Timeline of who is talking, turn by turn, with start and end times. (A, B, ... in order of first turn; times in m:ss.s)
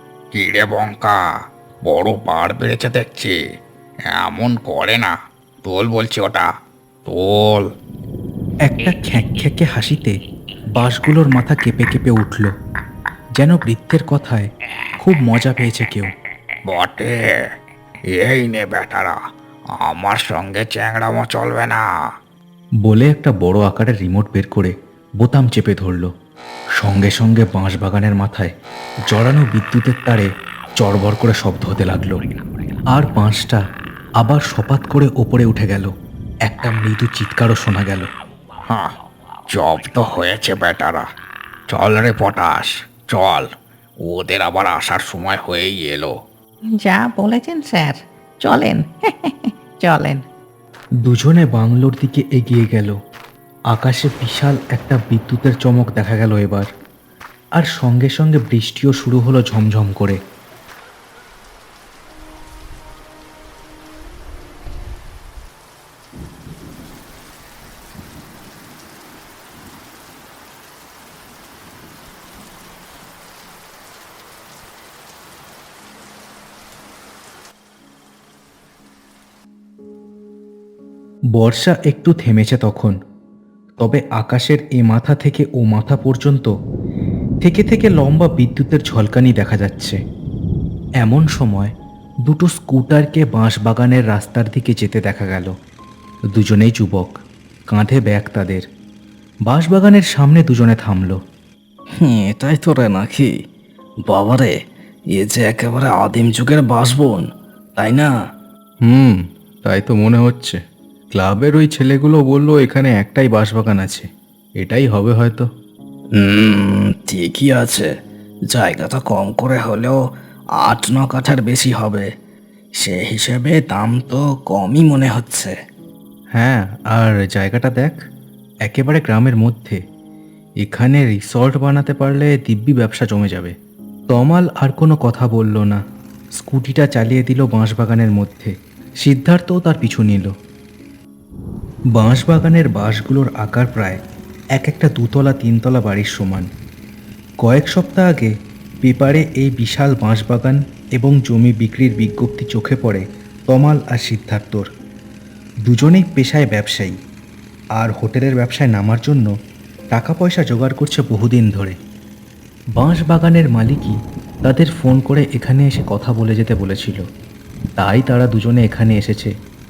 0:00.3-0:01.2 A
0:01.8-0:03.4 A
0:04.1-0:05.1 A
0:05.6-0:06.5 A
0:07.0-0:07.6 A
0:08.6-0:10.1 B
0:10.8-0:12.5 B
0:13.4-0:14.5 B
0:15.0-0:16.1 B
0:16.6-0:17.4 A
0:18.1-0:19.2 A
0:19.8-0:21.8 A
0:22.8-0:26.1 B
0:26.8-0:28.5 B
0:29.1-0:32.1 B
0:32.9-0:33.6 B
0:34.2-0:35.9 B
0:36.4-0:38.1 B
0:39.5-0:41.0 A
0:41.7-0:43.5 A
0:44.0-0:46.1 A
0:46.8-0:50.2 C
0:51.0-0:52.9 B
0:53.7-0:56.7 B
0:57.6-1:00.2 B
1:21.4-1:23.0 B
1:23.8-1:26.5 B
1:27.4-1:30.0 B
1:31.0-1:31.7 B
1:32.2-1:35.5 B
1:36.4-1:37.1 B
1:37.7-1:38.6 B
1:39.5-1:41.2 B
1:42.0-1:43.3 D
1:44.0-1:44.6 D
1:45.1-1:48.1 D
1:48.8-1:50.6 B
1:51.1-1:54.0 B
1:54.6-1:55.5 B
1:56.2-1:57.9 D
1:58.5-2:00.0 D
2:00.6-2:02.1 D
2:02.8-2:05.5 D
2:06.3-2:08.0 B
2:08.6-2:09.8 B
2:10.6-2:13.5 B
2:14.1-2:15.8 B
2:16.4-2:20.3 B
2:22.0-2:24.0 B
2:24.6-2:26.5 B
2:27.4-2:34.7 B
2:35.6-2:36.9 B
2:37.8-2:39.3 B
2:39.9-2:41.8 B
2:42.8-2:47.0 B
2:47.8-2:49.3 B